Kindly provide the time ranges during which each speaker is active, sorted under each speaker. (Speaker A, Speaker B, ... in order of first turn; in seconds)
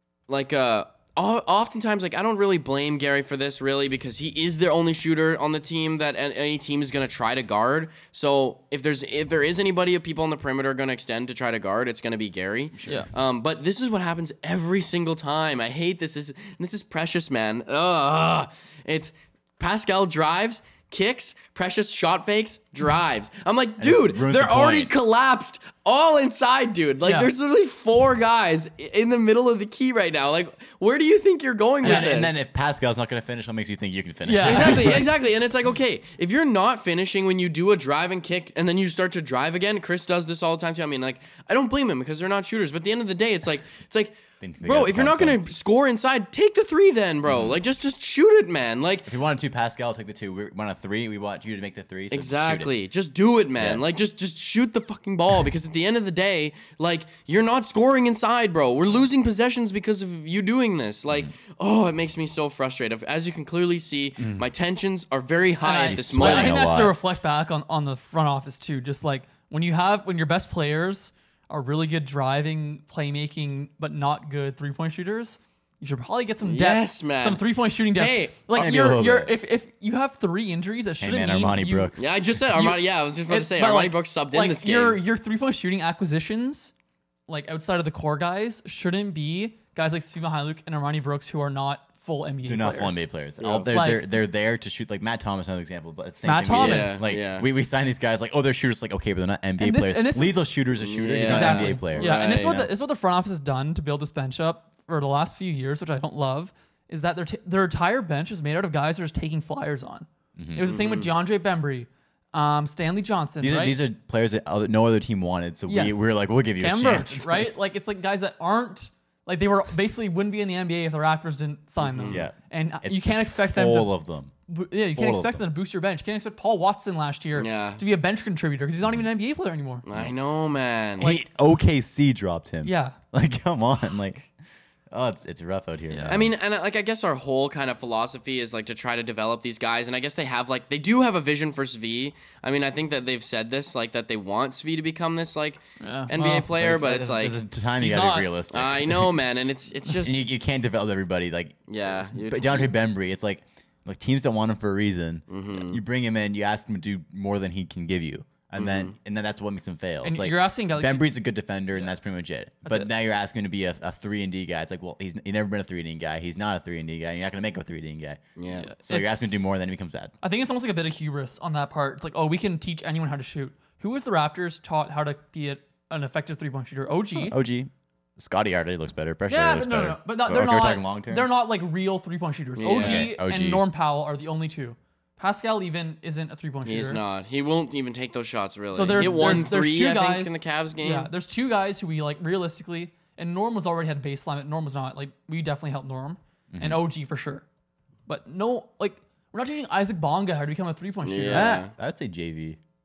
Speaker A: 0.3-32.5, 34.4-49.1, 52.1-66.7, 76.4-78.6, 82.0-85.0, 93.4-93.8, 96.5-97.5, 100.8-102.6, 110.7-111.1, 121.8-122.2, 127.3-127.8, 129.8-131.2, 136.1-147.4, 148.5-150.2, 151.7-152.7, 155.3-155.8, 158.6-158.9, 168.4-168.7, 182.6-183.1, 186.6-191.1, 201.0-201.7
Speaker B: 12.8-13.0, 23.8-24.9, 31.8-35.1, 44.4-45.4, 47.3-47.6, 49.0-52.7, 53.6-53.8, 64.2-64.4, 65.9-67.0, 78.5-79.3, 81.0-82.1, 92.5-102.7, 110.3-110.7, 113.4-117.5, 122.1-124.3, 124.9-125.4, 131.0-134.3, 134.9-136.3, 146.3-149.1, 149.9-168.2, 168.8-170.1, 177.2-181.3, 182.7-183.6, 188.9-189.4, 196.5-196.8, 201.3-202.6
Speaker C: 27.0-27.3, 31.8-32.1, 34.2-35.0, 65.6-81.9, 82.5-86.7, 87.3-93.1, 93.7-94.0, 96.2-97.0, 99.6-100.4, 101.2-113.8, 115.7-123.9, 124.5-129.8, 132.6-133.0, 135.9-136.2, 145.8-146.5, 147.8-148.3, 160.0-161.1, 162.6-162.9, 168.5-169.5, 170.2-177.3, 179.3-187.0, 188.7-197.4, 198.1-201.6